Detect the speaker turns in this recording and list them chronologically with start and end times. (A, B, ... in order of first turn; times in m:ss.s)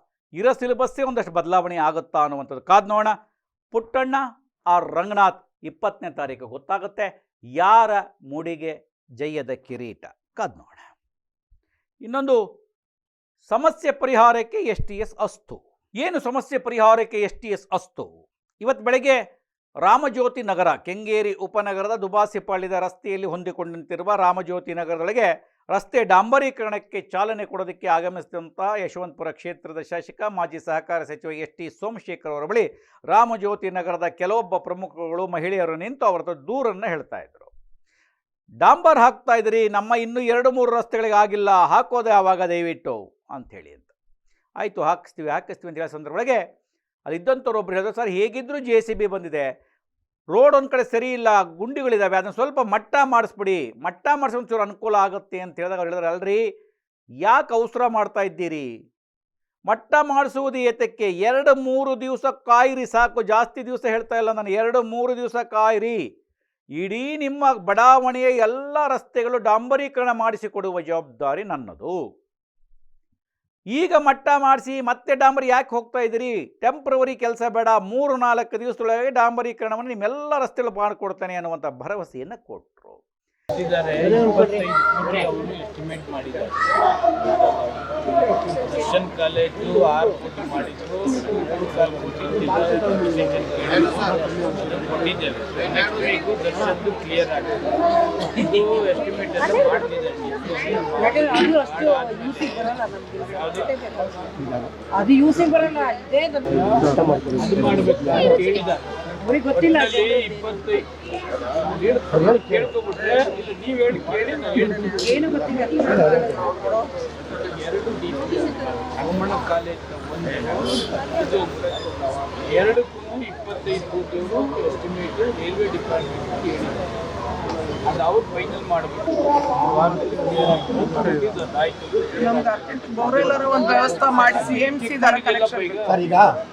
0:00.4-0:03.1 A
0:03.7-0:10.9 A
0:12.0-0:12.4 A
0:13.5-0:19.2 A
0:19.8-0:37.5 A
0:38.6-0:43.9 A
0:44.6-0:46.4 A
0:47.1-0:49.5 A
0:50.3-0:56.4 A
0:57.2-0:58.7 A
0:59.7-1:06.0 A
1:06.8-1:12.0 A
1:13.8-1:23.0 A
1:23.5-1:26.6 B
1:27.2-1:37.7 B
1:38.3-1:42.6 B
1:41.0-1:43.4 C
1:43.2-1:44.0 B
1:44.9-1:46.5 C
1:46.5-1:48.9 B
1:46.8-1:48.0 D
1:49.2-1:50.2 C
1:49.5-1:50.9 B
1:51.6-1:55.2 B
1:52.1-1:52.7 D
1:55.0-1:56.5 C
1:55.8-1:56.4 D
1:56.5-1:56.9 E
1:57.4-2:06.9 B
2:07.9-2:12.5 B
2:12.2-2:15.8 E
2:13.9-2:16.0 B
2:15.9-2:16.3 D